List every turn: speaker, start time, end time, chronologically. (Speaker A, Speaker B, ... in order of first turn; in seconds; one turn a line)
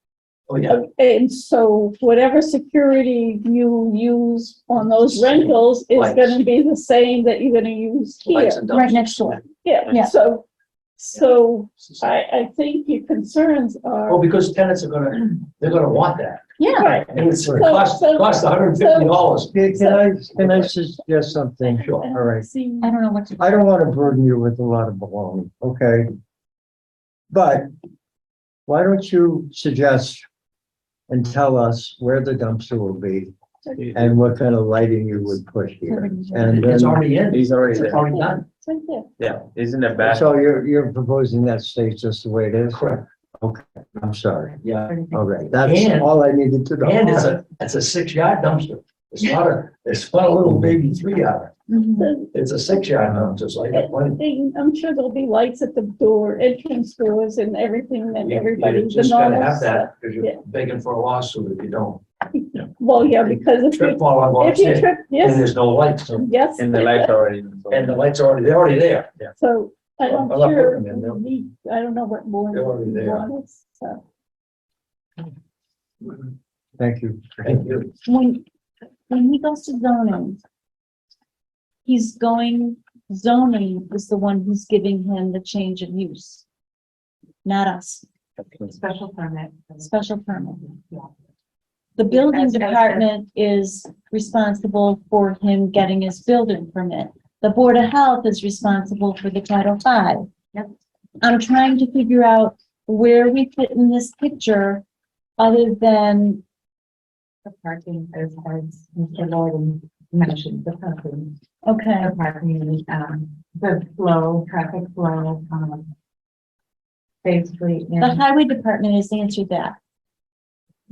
Speaker A: 0.5-0.8
Speaker B: 0.7-8.6
Speaker A: 4.9-6.4
Speaker A: 8.3-9.3
Speaker C: 8.7-10.1
Speaker B: 9.6-10.5
Speaker B: 11.0-14.3
Speaker A: 11.8-12.1
Speaker A: 14.1-16.5
Speaker C: 16.6-17.0
Speaker B: 16.6-20.8
Speaker A: 17.1-19.5
Speaker D: 17.4-17.7
Speaker D: 19.5-22.5
Speaker B: 21.6-23.0
Speaker A: 21.8-22.1
Speaker C: 22.8-23.7
Speaker D: 23.4-26.1
Speaker D: 27.3-27.7
Speaker D: 28.7-30.2
Speaker D: 31.1-33.3
Speaker B: 33.7-33.9
Speaker E: 33.8-34.0
Speaker D: 33.9-37.0
Speaker C: 35.9-36.6
Speaker A: 36.5-38.4
Speaker E: 37.3-37.9
Speaker B: 37.7-39.1
Speaker E: 39.2-40.3
Speaker D: 40.0-42.9
Speaker A: 42.7-43.1
Speaker D: 43.4-47.4
Speaker A: 44.6-45.0
Speaker F: 44.9-45.3
Speaker A: 45.5-46.1
Speaker A: 46.8-51.6
Speaker C: 51.7-52.1
Speaker B: 52.0-52.3
Speaker A: 52.3-54.2
Speaker D: 53.0-53.4
Speaker B: 53.7-60.4
Speaker A: 58.2-66.3
Speaker B: 62.8-65.5
Speaker B: 66.1-67.2
Speaker E: 66.6-67.9
Speaker A: 67.7-69.3
Speaker B: 69.4-74.0
Speaker A: 70.1-71.3
Speaker A: 72.5-73.3
Speaker D: 76.8-77.7
Speaker A: 77.4-77.9
Speaker C: 78.0-78.4
Speaker C: 79.1-80.4
Speaker C: 81.9-86.4
Speaker C: 87.5-88.0
Speaker F: 88.6-90.0
Speaker C: 89.8-90.7
Speaker F: 90.6-91.1
Speaker C: 92.0-100.3
Speaker F: 92.1-93.1
Speaker C: 101.2-104.8
Speaker C: 105.4-106.4
Speaker F: 107.5-111.4
Speaker C: 111.6-112.2
Speaker F: 112.0-115.9
Speaker F: 117.2-118.2
Speaker C: 118.0-119.8